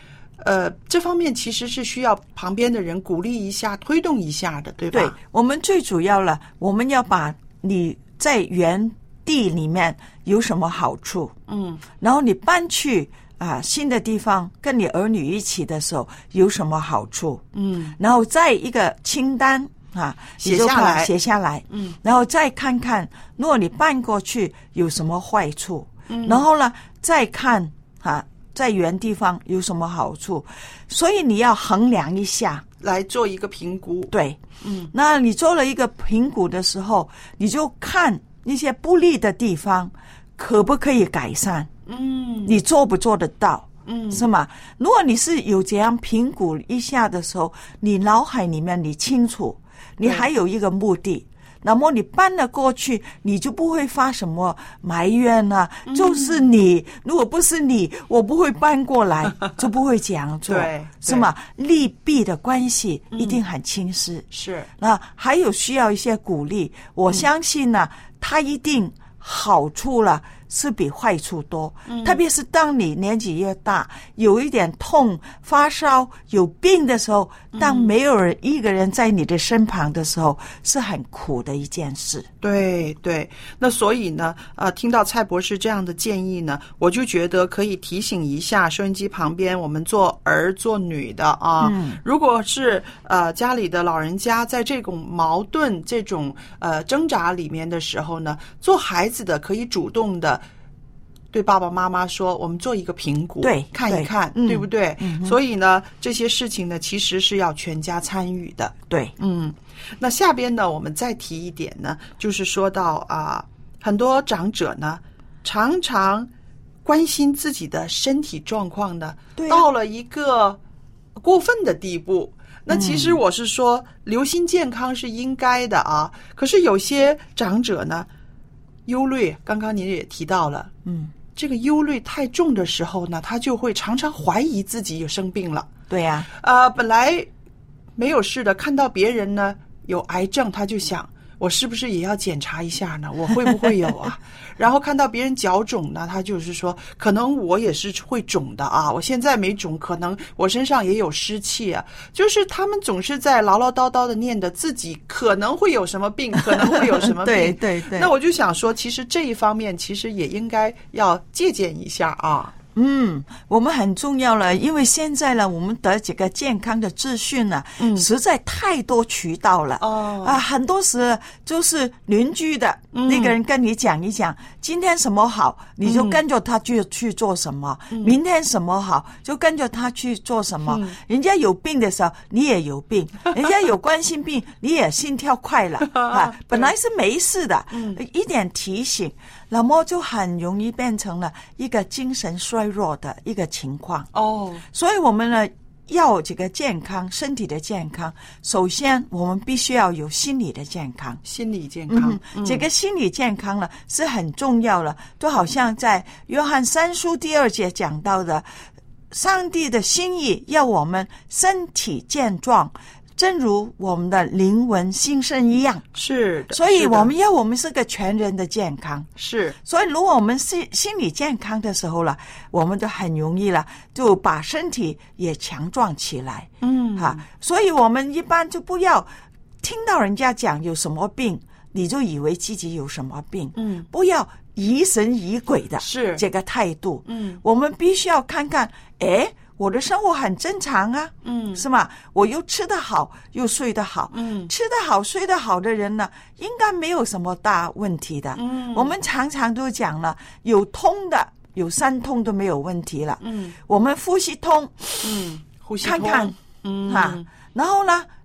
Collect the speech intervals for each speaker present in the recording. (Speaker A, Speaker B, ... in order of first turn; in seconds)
Speaker A: 0.4-5.2, 11.5-11.8, 17.5-17.9, 20.4-21.1, 21.7-21.9, 26.1-26.4, 32.8-34.9, 41.9-42.6, 43.8-44.2, 55.9-56.4, 60.5-61.3, 63.1-63.4, 64.3-64.7, 71.9-72.2, 77.5-77.9, 82.4-100.4, 101.3-116.3, 116.8-120.6, 121.2-128.1, 128.8-130.7, 131.2-135.7, 136.3-137.3, 137.9-162.6, 167.8-168.1, 169.8-170.4, 172.9-173.3, 175.8-176.2, 180.6-181.0, 185.9-186.7, 187.7-188.0, 194.1-194.6, 201.2-202.6, 215.9-217.1, 219.2-219.6, 226.6-227.2, 233.6-233.9, 235.8-236.2, 237.1-237.4, 241.2-241.6, 244.1-244.5, 248.3-248.9, 253.2-253.5, 255.0-257.3
Speaker B: 4.9-11.3, 12.0-17.4, 18.0-32.6, 34.1-34.4, 34.9-41.7, 42.4-64.3, 64.8-82.3, 91.6-92.0, 103.4-105.4, 108.9-109.1, 119.4-119.7, 122.7-123.2, 130.8-131.2, 135.9-136.3, 156.5-158.1, 162.7-194.1, 194.7-201.2, 201.9-208.5, 209.1-215.8, 216.5-219.1, 219.6-229.1, 229.6-255.1, 255.8-256.3, 256.9-258.1